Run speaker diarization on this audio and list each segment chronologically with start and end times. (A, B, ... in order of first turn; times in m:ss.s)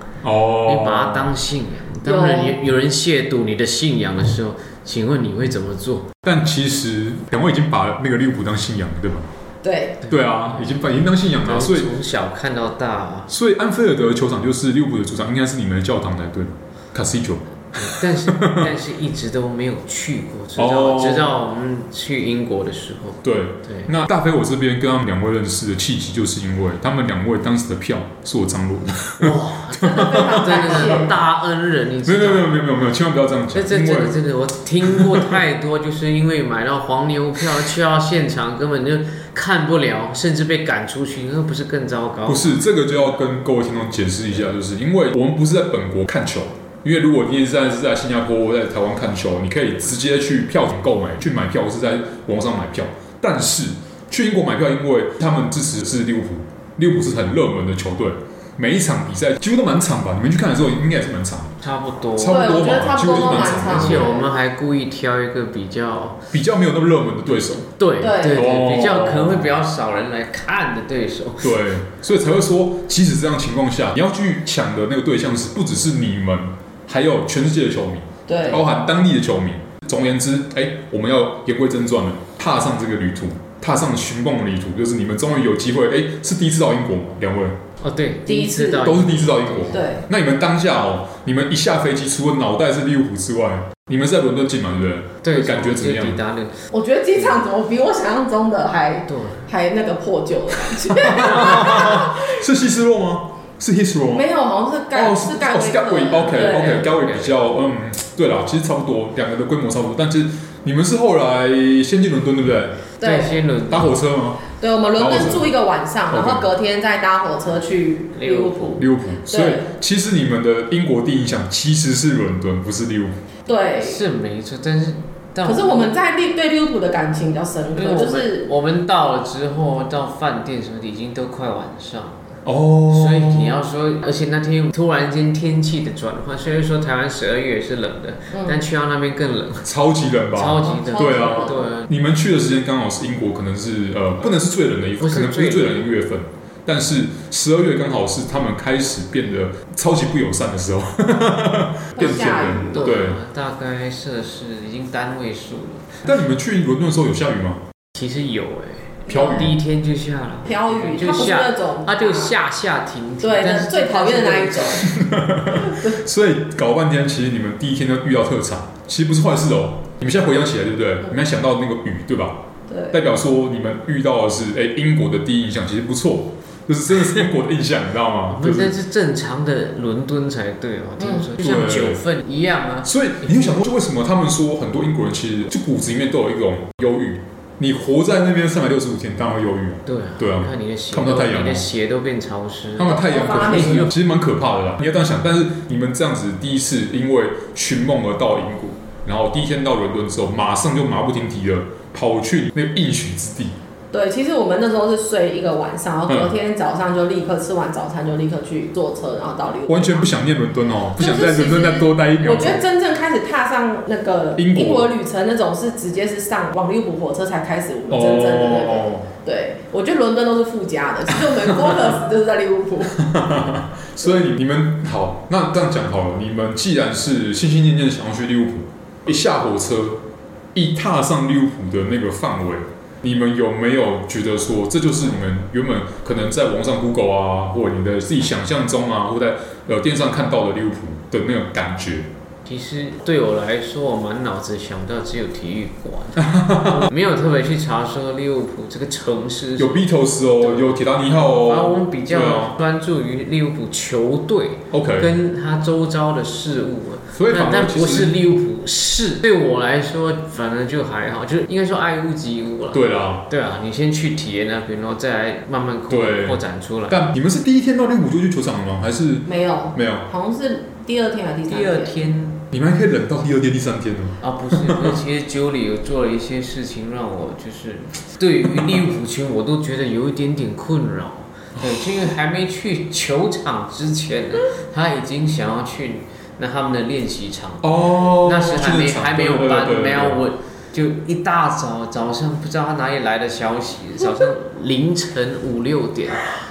0:00.2-0:01.3 A
0:00.6-0:06.1 B
0:02.0-0:02.6 C
0:06.2-0:09.3 A
0:09.6-0:10.0 C
0:10.0-0:10.7 B
0:10.1-0:11.9 A
0:11.4-0:13.3 B
0:13.3-0:18.7 A
0:17.8-0:23.9 B
0:20.6-0:21.4 A
0:23.2-0:31.2 A
0:29.2-0:32.6 B
0:29.8-0:31.2 C
0:32.0-0:34.2 A
0:33.5-0:42.9 B
0:34.8-0:35.4 A
0:42.2-1:01.5 A
1:01.6-1:06.2 B
1:02.2-1:04.1 A
1:02.2-1:04.3 C
1:06.3-1:07.7 A
1:07.7-1:11.7 B
1:08.0-1:08.5 C
1:08.2-1:09.5 A
1:11.4-1:27.6 A
1:18.3-1:18.6 C
1:27.8-1:29.9 B
1:28.2-1:28.9 C
1:28.8-1:36.2 A
1:29.7-1:30.0 C
1:35.2-1:36.6 B
1:36.7-1:42.3 C
1:39.1-1:39.4 B
1:40.8-1:44.3 A
1:44.1-1:46.9 C
1:44.9-1:52.8 A
1:46.2-1:47.3 B
1:53.0-1:53.4 C
1:53.0-1:53.9 B
1:53.7-1:55.6 A
1:54.5-1:59.7 C
1:56.1-1:56.5 A
1:58.1-1:58.8 B
1:58.8-2:03.2 A
2:03.4-2:04.0 C
2:03.8-2:05.9 B
2:05.4-2:08.5 C
2:07.7-2:19.7 B
2:12.4-2:13.6 A
2:18.3-2:18.6 C
2:19.6-2:33.2 A
2:20.3-2:21.9 B
2:20.6-2:21.7 C
2:25.0-2:25.8 B
2:32.0-2:33.0 C
2:32.0-2:36.0 B
2:36.0-2:37.6 A
2:37.9-2:44.9 B
2:39.1-2:39.5 C
2:39.1-2:39.6 A
2:40.4-2:42.3 C
2:43.2-2:44.9 C
2:44.8-2:58.7 A
2:45.6-2:45.9 C
2:52.7-2:53.0 C
2:58.3-3:03.5 B
3:01.0-3:01.2 C
3:01.4-3:02.0 A
3:02.8-3:11.7 A
3:09.8-3:13.9 B
3:12.8-3:23.6 A
3:12.8-3:13.9 C
3:23.9-3:30.1 C
3:29.7-3:32.6 A
3:31.0-3:43.0 C
3:34.4-3:34.9 A
3:37.9-3:39.1 A
3:43.0-4:02.1 A
4:02.4-4:27.0 B
4:06.2-4:06.9 A
4:09.6-4:12.6 A
4:14.7-4:15.1 A
4:17.1-4:18.1 A
4:22.7-4:23.2 A
4:25.9-4:30.1 A
4:29.2-4:32.0 C
4:31.5-4:32.4 B
4:32.5-4:35.0 A
4:34.2-4:56.3 B
4:41.6-4:42.1 A
4:47.6-4:50.2 A